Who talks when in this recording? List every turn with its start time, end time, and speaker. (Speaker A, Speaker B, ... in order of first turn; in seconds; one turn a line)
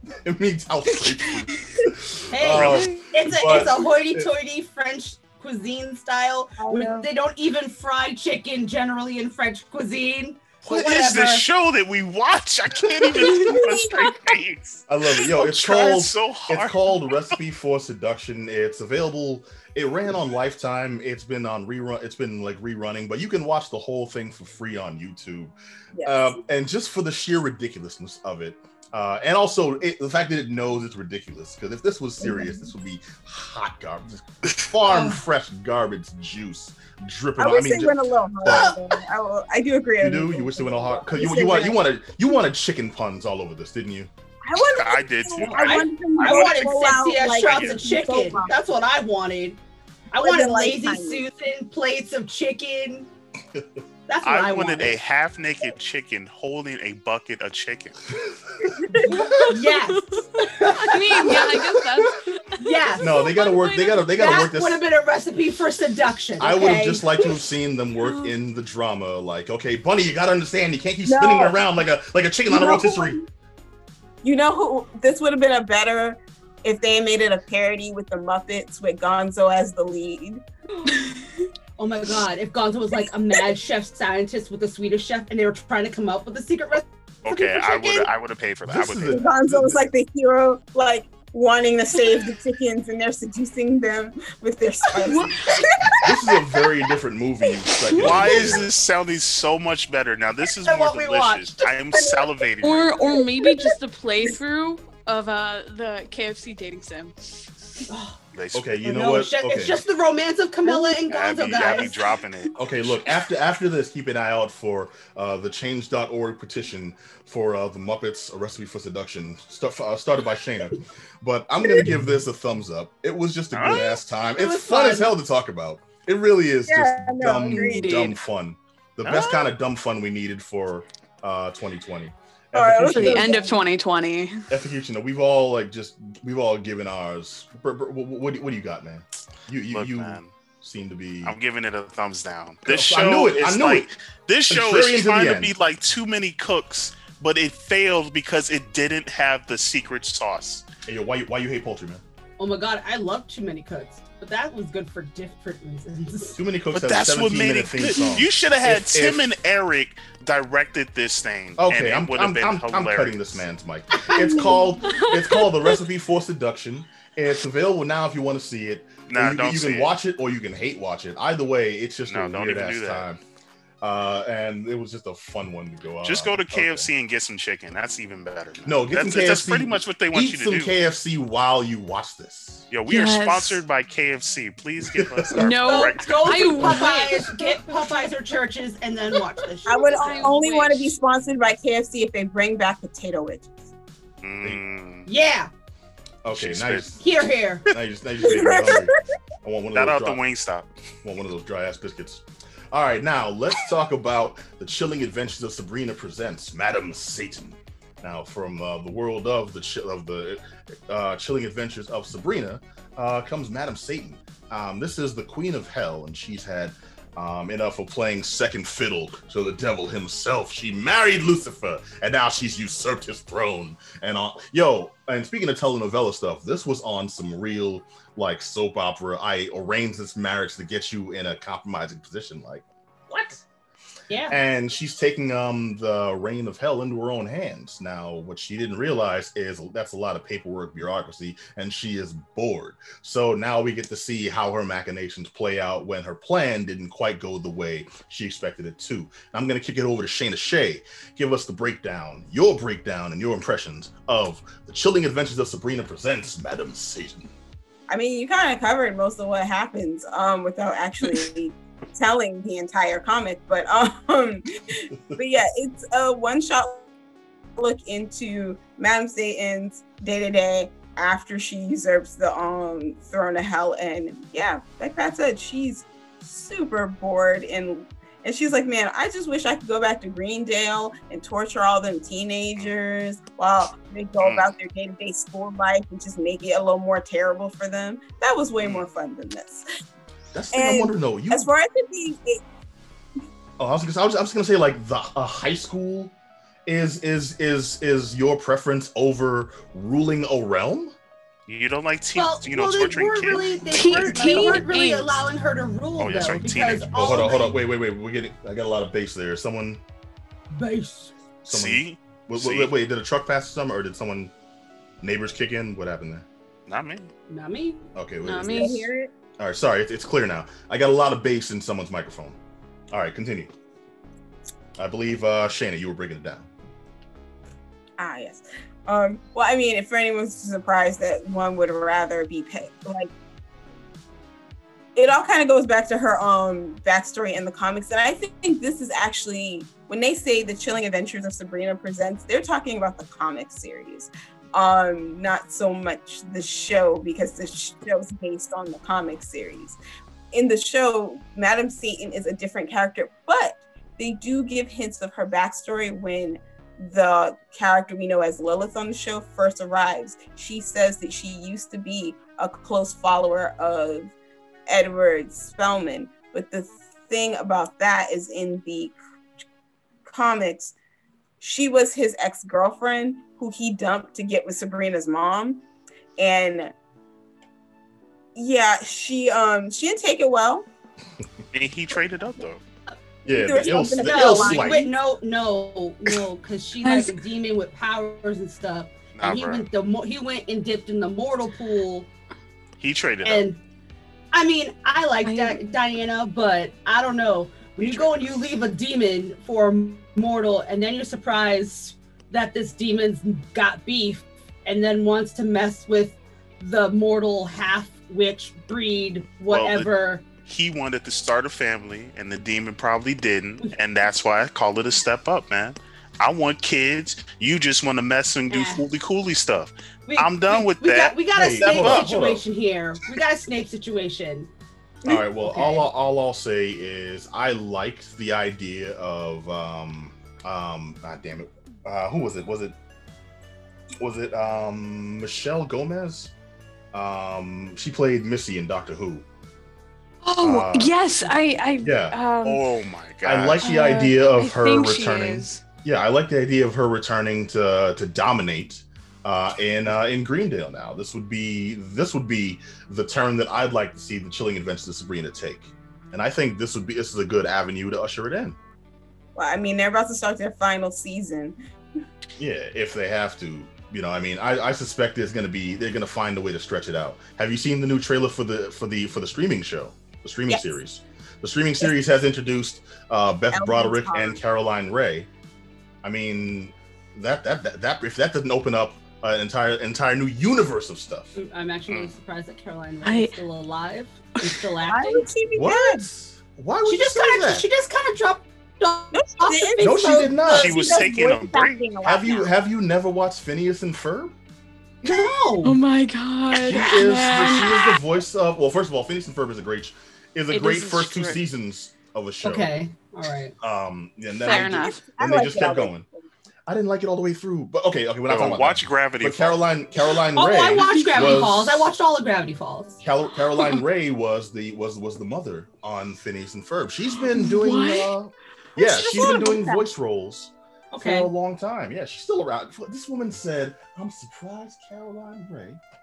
Speaker A: 0.2-4.3
Speaker B: 1.0-1.7
Speaker C: 2.3-11.4
Speaker D: 2.4-3.6
Speaker E: 6.6-7.1
Speaker A: 10.7-10.9
Speaker D: 10.7-17.4
Speaker E: 13.3-13.8
Speaker A: 14.9-38.7
Speaker E: 25.9-26.4
Speaker E: 32.2-32.6
Speaker C: 34.8-35.2
Speaker E: 37.4-41.8
Speaker C: 38.5-38.8
Speaker A: 40.0-44.1
Speaker E: 44.4-48.5
Speaker D: 44.6-47.8
Speaker C: 45.4-49.6
Speaker C: 50.1-53.1
Speaker E: 50.2-51.2
Speaker C: 54.1-55.0
Speaker D: 54.2-58.0
Speaker E: 58.7-59.2
Speaker B: 59.0-64.5
Speaker C: 59.0-61.5
Speaker A: 61.2-62.2
Speaker C: 62.6-63.3
Speaker A: 63.0-64.8
Speaker C: 64.1-67.2
Speaker A: 66.4-73.2
Speaker B: 68.0-68.3
Speaker E: 71.0-71.6
Speaker E: 72.5-73.2
Speaker E: 74.2-80.4
Speaker C: 80.8-81.1
Speaker C: 81.8-86.8
Speaker D: 87.2-89.2
Speaker E: 87.6-88.1
Speaker A: 88.7-89.8
Speaker E: 89.1-96.6
Speaker B: 95.0-95.6
Speaker A: 96.0-98.7
Speaker B: 97.9-98.4
Speaker D: 98.0-103.0
Speaker C: 100.6-102.0
Speaker B: 102.6-107.5
Speaker E: 103.4-103.7
Speaker C: 107.9-108.2
Speaker D: 108.3-108.9
Speaker A: 108.5-109.8
Speaker C: 108.8-111.9
Speaker D: 111.0-113.0
Speaker A: 112.5-133.3
Speaker D: 123.5-124.0
Speaker C: 124.3-125.1
Speaker E: 126.7-128.1
Speaker B: 127.5-128.2
Speaker D: 129.0-129.5
Speaker E: 132.5-133.5
Speaker B: 132.9-134.4
Speaker A: 134.5-141.3
Speaker D: 139.7-140.3
Speaker D: 141.2-150.6
Speaker A: 142.7-143.9
Speaker A: 144.5-145.5
Speaker A: 150.9-152.0
Speaker C: 152.4-156.4
Speaker A: 156.3-159.3
Speaker D: 156.7-163.4
Speaker A: 161.6-173.2
Speaker C: 164.2-164.6
Speaker B: 164.8-165.5
Speaker D: 169.1-169.9
Speaker D: 172.1-173.1
Speaker A: 173.8-176.9
Speaker D: 176.0-180.7
Speaker A: 178.6-182.7
Speaker D: 182.7-186.8
Speaker B: 182.9-183.6
Speaker A: 184.8-185.6
Speaker B: 185.3-187.6
Speaker C: 185.6-190.3
Speaker E: 189.6-193.5
Speaker B: 189.9-190.9
Speaker D: 194.2-195.1
Speaker C: 195.1-195.5
Speaker A: 196.2-197.0
Speaker D: 196.3-197.0
Speaker C: 197.0-197.7
Speaker A: 197.7-200.2
Speaker E: 198.2-199.0
Speaker D: 199.7-200.7
Speaker A: 201.0-233.3
Speaker C: 234.1-234.4
Speaker A: 234.3-257.3
Speaker E: 257.9-266.9
Speaker E: 267.6-289.6
Speaker D: 284.2-284.5
Speaker D: 288.6-288.8
Speaker A: 290.3-291.5
Speaker E: 290.5-292.4
Speaker A: 293.6-296.1
Speaker A: 296.7-300.9
Speaker D: 301.5-304.6
Speaker C: 302.1-307.6
Speaker B: 303.7-305.2
Speaker D: 306.0-307.4
Speaker A: 306.9-309.8
Speaker C: 310.5-311.1
Speaker A: 311.4-314.3
Speaker D: 311.5-312.7
Speaker A: 315.0-316.2
Speaker D: 316.7-317.1
Speaker C: 317.3-317.9
Speaker A: 317.9-318.8
Speaker B: 318.2-318.9
Speaker E: 318.5-319.1
Speaker A: 319.4-322.4
Speaker A: 322.9-323.5
Speaker A: 324.8-326.5
Speaker E: 328.0-333.1
Speaker E: 334.9-349.8
Speaker E: 350.3-364.1
Speaker E: 364.7-369.0
Speaker E: 370.0-370.7
Speaker E: 371.4-375.6
Speaker E: 376.2-376.7
Speaker E: 378.3-380.6
Speaker D: 381.5-382.6
Speaker A: 383.2-384.9
Speaker E: 383.3-384.9
Speaker C: 383.9-392.1
Speaker B: 386.8-387.1
Speaker D: 389.1-389.7
Speaker D: 392.8-393.5
Speaker C: 393.2-393.6
Speaker C: 394.3-410.2
Speaker B: 395.2-395.6
Speaker D: 397.8-398.2
Speaker D: 409.5-409.9
Speaker D: 410.4-422.1
Speaker C: 418.5-418.8
Speaker C: 420.1-424.5
Speaker A: 421.3-422.4
Speaker A: 425.0-432.7
Speaker C: 425.1-425.9
Speaker A: 434.0-436.3
Speaker A: 436.9-439.2
Speaker B: 440.2-442.6
Speaker A: 440.4-440.9
Speaker A: 441.8-442.2
Speaker D: 442.4-443.6
Speaker A: 443.2-458.6
Speaker B: 443.6-445.6
Speaker E: 459.3-461.6
Speaker A: 462.4-475.3
Speaker E: 473.5-474.4
Speaker A: 476.0-481.4
Speaker C: 481.4-485.3
Speaker B: 483.0-483.3
Speaker E: 484.8-486.0
Speaker A: 485.5-487.6
Speaker C: 486.8-491.0
Speaker E: 489.1-492.5
Speaker A: 489.8-490.9
Speaker D: 490.5-491.8
Speaker A: 492.0-494.3
Speaker C: 495.0-495.8
Speaker B: 495.6-498.0
Speaker A: 496.5-502.7
Speaker B: 500.5-501.4
Speaker C: 502.4-503.5
Speaker A: 503.6-506.0
Speaker B: 504.4-505.0
Speaker E: 504.6-506.3
Speaker A: 506.7-511.9
Speaker D: 508.3-509.6
Speaker C: 510.4-513.0
Speaker B: 510.8-511.4
Speaker A: 513.0-525.8
Speaker B: 517.3-518.1
Speaker E: 518.8-519.9
Speaker C: 520.9-521.3